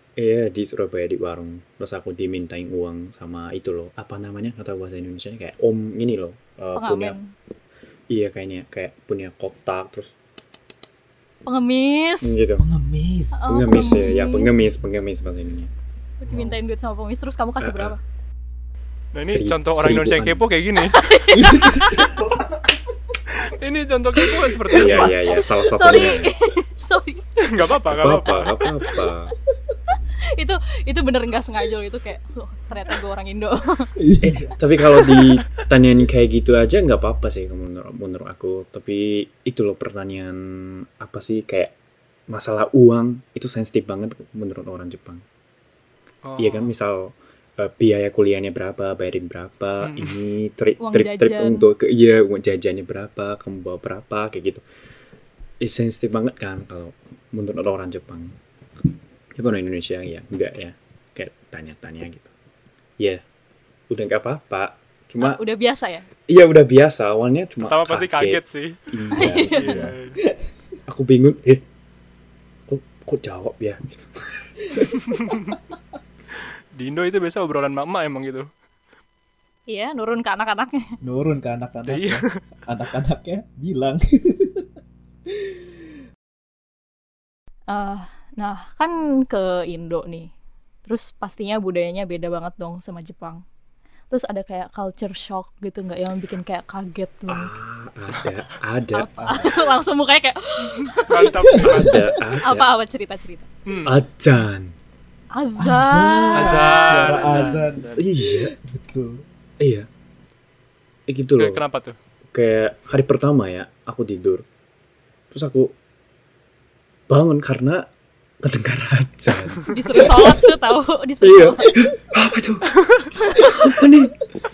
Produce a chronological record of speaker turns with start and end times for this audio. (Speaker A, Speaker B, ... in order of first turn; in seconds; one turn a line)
Speaker A: 0.2-7.2
Speaker B: 6.7-7.3
Speaker A: 8.1-10.2
Speaker B: 11.4-12.3
Speaker A: 12.2-12.6
Speaker C: 12.6-13.5
Speaker B: 13.3-14.7
Speaker A: 13.5-15.7
Speaker B: 16.2-18.0
Speaker C: 16.3-16.5
Speaker A: 17.6-18.0
Speaker D: 19.1-21.0
Speaker A: 19.2-20.4
Speaker B: 20.8-22.1
Speaker C: 21.3-22.8
Speaker D: 23.4-25.1
Speaker A: 24.7-26.3
Speaker C: 24.7-25.1
Speaker B: 25.0-27.7
Speaker D: 27.4-28.5
Speaker A: 27.8-29.3
Speaker B: 28.2-29.1
Speaker B: 30.3-33.9
Speaker C: 34.0-35.3
Speaker A: 34.2-41.7
Speaker A: 42.3-45.2
Speaker D: 46.2-46.7
Speaker A: 46.4-54.6
Speaker D: 49.8-50.1
Speaker B: 50.8-51.7
Speaker A: 55.6-58.3
Speaker A: 59.3-62.3
Speaker A: 63.9-65.4
Speaker B: 65.2-66.1
Speaker A: 66.3-69.8
Speaker D: 67.7-70.2
Speaker B: 69.1-69.9
Speaker C: 69.6-70.4
Speaker A: 70.9-71.6
Speaker A: 72.7-75.0
Speaker D: 75.1-75.5
Speaker D: 76.7-78.5
Speaker B: 79.7-80.9
Speaker C: 81.0-84.7
Speaker D: 81.9-82.3
Speaker C: 85.3-85.6
Speaker B: 87.7-90.3
Speaker B: 90.8-93.4
Speaker B: 94.1-97.5
Speaker A: 97.3-99.1
Speaker B: 98.9-103.5
Speaker C: 99.2-99.6
Speaker D: 100.9-102.0
Speaker C: 101.5-102.0
Speaker A: 101.6-102.7
Speaker D: 103.7-103.9
Speaker A: 103.8-104.7
Speaker B: 105.3-107.5
Speaker C: 105.6-109.2
Speaker D: 106.3-108.0
Speaker A: 108.0-108.5
Speaker A: 109.6-109.9
Speaker A: 111.1-111.6
Speaker D: 111.4-112.0
Speaker A: 112.3-114.4
Speaker A: 115.3-115.7
Speaker A: 117.1-117.9
Speaker A: 118.4-119.7
Speaker B: 119.7-121.7
Speaker C: 120.0-120.4
Speaker A: 121.2-124.3